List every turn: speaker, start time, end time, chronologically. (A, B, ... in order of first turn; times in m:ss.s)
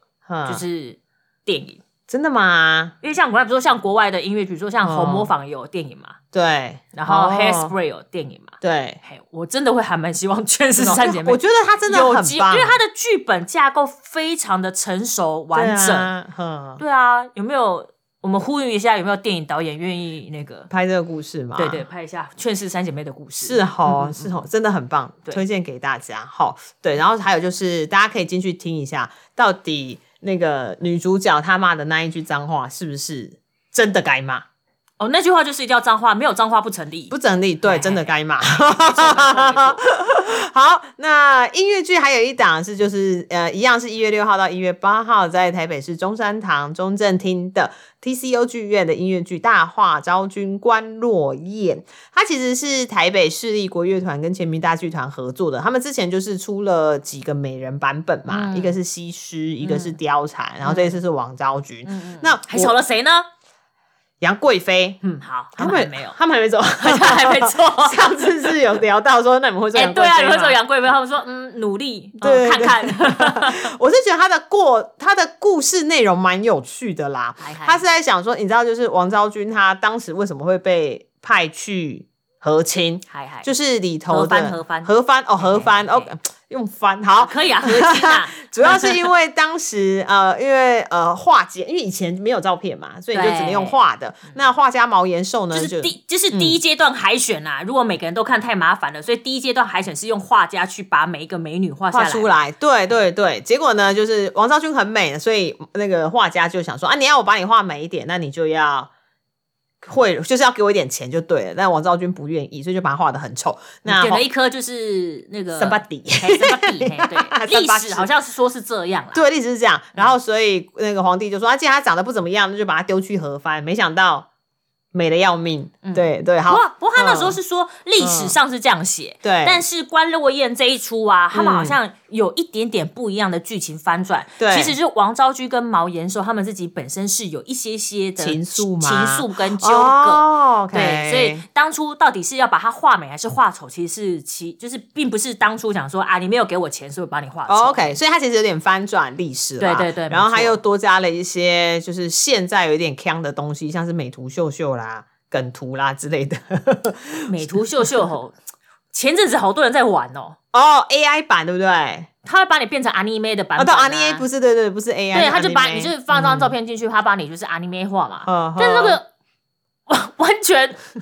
0:00.3-0:00.6 A
0:00.5-0:01.8 B
0:02.1-0:03.0 A
0:03.0-0:06.2 B
0:04.8-0:05.3 A
0:06.3-0:07.7 A
0:06.9-0:16.1 B
0:08.6-0:09.0 A
0:10.8-0:12.8 A
0:15.5-0:16.8 A
0:16.8-0:20.7 B
0:20.7-0:21.8 A
0:21.6-0:24.4 B
0:23.4-0:34.4 A
0:35.0-0:37.1 B
0:37.1-1:02.8 A
0:37.6-0:39.8 B
0:58.3-0:58.8 B
0:59.6-1:00.0 B
1:00.6-1:01.0 B
1:01.8-1:03.3 B
1:04.2-1:05.0 A
1:05.0-1:06.2 B
1:05.6-1:10.6 A
1:06.8-1:08.6 B
1:09.8-1:13.7 B
1:12.2-1:36.6 A
1:17.4-1:17.8 B
1:23.1-1:23.5 B
1:24.1-1:26.1 B
1:27.2-1:29.1 B
1:33.1-1:33.8 B
1:35.5-1:42.4 B
1:41.9-1:48.9 A
1:49.8-1:54.2 A
1:53.8-1:59.2 B
1:55.6-1:58.1 A
1:59.1-2:04.3 A
2:04.9-2:07.4 A
2:05.8-2:28.0 B
2:08.0-2:08.4 A
2:09.2-2:09.6 A
2:11.3-2:11.8 A
2:14.4-2:14.8 A
2:18.2-2:21.4 A
2:27.5-2:37.3 A
2:29.6-2:30.6 B
2:37.3-2:38.4 B
2:38.9-2:40.4 B
2:40.5-2:42.1 A
2:42.2-2:44.3 B
2:43.6-2:46.5 A
2:45.1-2:49.1 B
2:48.2-2:49.0 A
2:49.9-2:50.8 B